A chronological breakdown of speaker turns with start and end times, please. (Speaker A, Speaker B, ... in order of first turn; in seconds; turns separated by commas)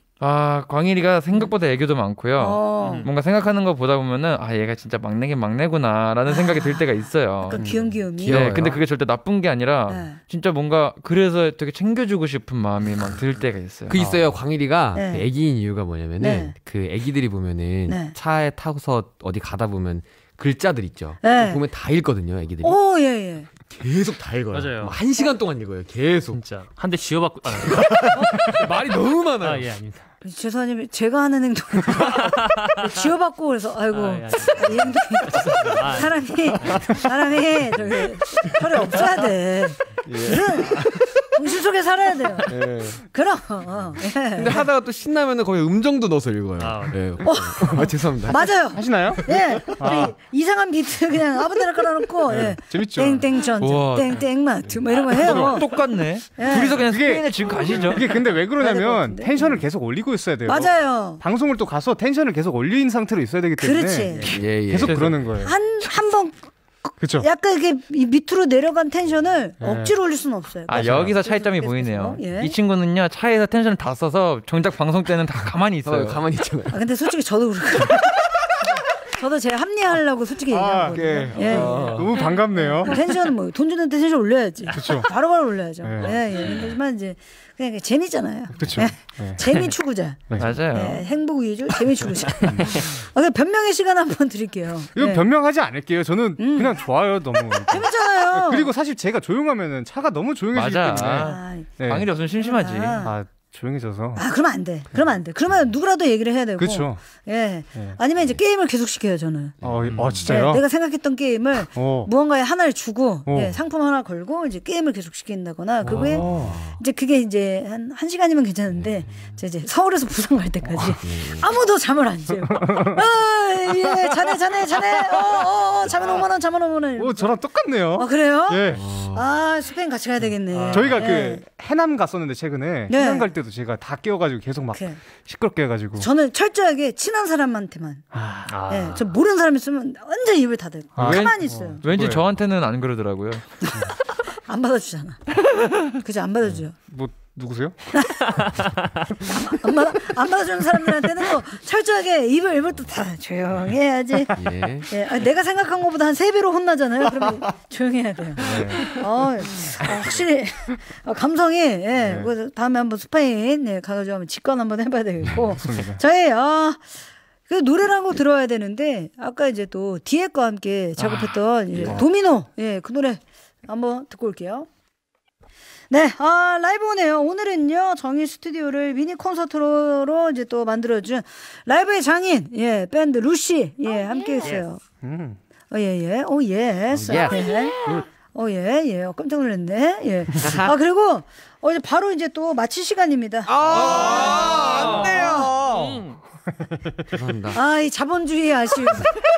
Speaker A: 0.2-7.6, Speaker B: 2.4-3.1, Speaker C: 2.8-3.1, Speaker B: 6.2-6.9, Speaker B: 7.4-8.6, Speaker D: 7.5-8.8, Speaker A: 8.3-14.0, Speaker B: 9.9-10.2, Speaker D: 13.9-22.8, Speaker E: 13.9-14.3, Speaker B: 14.9-15.2, Speaker B: 16.2-16.5, Speaker B: 17.9-18.1, Speaker B: 21.2-21.6, Speaker B: 22.6-23.5, Speaker D: 23.7-26.4, Speaker C: 24.5-25.0, Speaker C: 26.3-28.6, Speaker D: 27.6-29.7, Speaker C: 29.4-30.1, Speaker B: 30.2-44.6, Speaker C: 32.0-32.8, Speaker C: 33.9-37.0, Speaker E: 40.0-41.1, Speaker E: 42.5-43.0, Speaker D: 44.3-48.5, Speaker C: 46.6-47.2, Speaker B: 47.2-55.7, Speaker E: 48.7-50.1, Speaker D: 49.2-50.0, Speaker E: 52.2-53.3, Speaker A: 53.6-54.4, Speaker E: 54.6-55.9, Speaker A: 55.1-58.3, Speaker B: 56.4-56.8, Speaker E: 56.4-65.5, Speaker B: 58.6-59.6, Speaker B: 60.4-61.2, Speaker B: 63.6-64.3, Speaker A: 64.2-65.2, Speaker D: 64.3-65.1, Speaker B: 65.4-72.5, Speaker E: 67.0-67.3, Speaker E: 69.6-70.0, Speaker A: 70.7-76.2, Speaker E: 70.7-71.1, Speaker D: 75.8-76.8, Speaker B: 76.7-81.8, Speaker E: 80.5-83.1, Speaker D: 81.4-82.1, Speaker C: 81.7-82.2, Speaker B: 82.8-95.2, Speaker E: 84.7-85.1, Speaker E: 85.8-86.2, Speaker E: 88.5-89.4, Speaker A: 90.4-91.1, Speaker E: 92.4-92.8, Speaker E: 94.9-102.1, Speaker B: 96.4-96.8, Speaker B: 97.7-98.7, Speaker A: 100.5-103.0, Speaker B: 101.2-101.7, Speaker B: 102.3-103.1, Speaker E: 103.0-104.2, Speaker B: 104.2-109.5, Speaker E: 106.6-107.0, Speaker D: 109.6-110.2, Speaker E: 109.6-110.6, Speaker B: 110.2-127.3, Speaker E: 111.7-112.1, Speaker E: 113.3-113.6, Speaker D: 115.8-116.8, Speaker E: 115.9-116.6, Speaker D: 118.7-119.4, Speaker D: 121.0-121.6, Speaker E: 122.5-123.0, Speaker E: 127.0-128.8, Speaker B: 127.9-131.4, Speaker D: 128.7-129.3, Speaker C: 130.5-131.0, Speaker E: 130.7-136.1, Speaker B: 132.9-133.3, Speaker B: 134.7-135.0, Speaker B: 136.0-138.1, Speaker E: 138.1-138.5, Speaker C: 138.5-139.1, Speaker B: 138.7-141.8, Speaker E: 140.9-142.3, Speaker A: 141.0-143.6, Speaker B: 143.6-145.4, Speaker B: 145.9-146.7, Speaker E: 146.8-147.8, Speaker B: 149.2-166.8, Speaker D: 154.3-154.9, Speaker E: 158.4-159.0, Speaker E: 159.6-160.1, Speaker E: 161.9-162.3, Speaker E: 165.5-166.0, Speaker B: 167.5-174.7, Speaker A: 171.0-171.4, Speaker B: 175.9-184.8, Speaker E: 185.0-185.4, Speaker B: 185.7-187.8, Speaker D: 186.9-188.1, Speaker B: 188.3-194.5, Speaker D: 190.4-190.7, Speaker D: 193.4-196.0, Speaker C: 193.6-196.2, Speaker E: 194.8-195.1, Speaker B: 195.2-195.5, Speaker D: 197.1-197.6, Speaker B: 197.5-199.2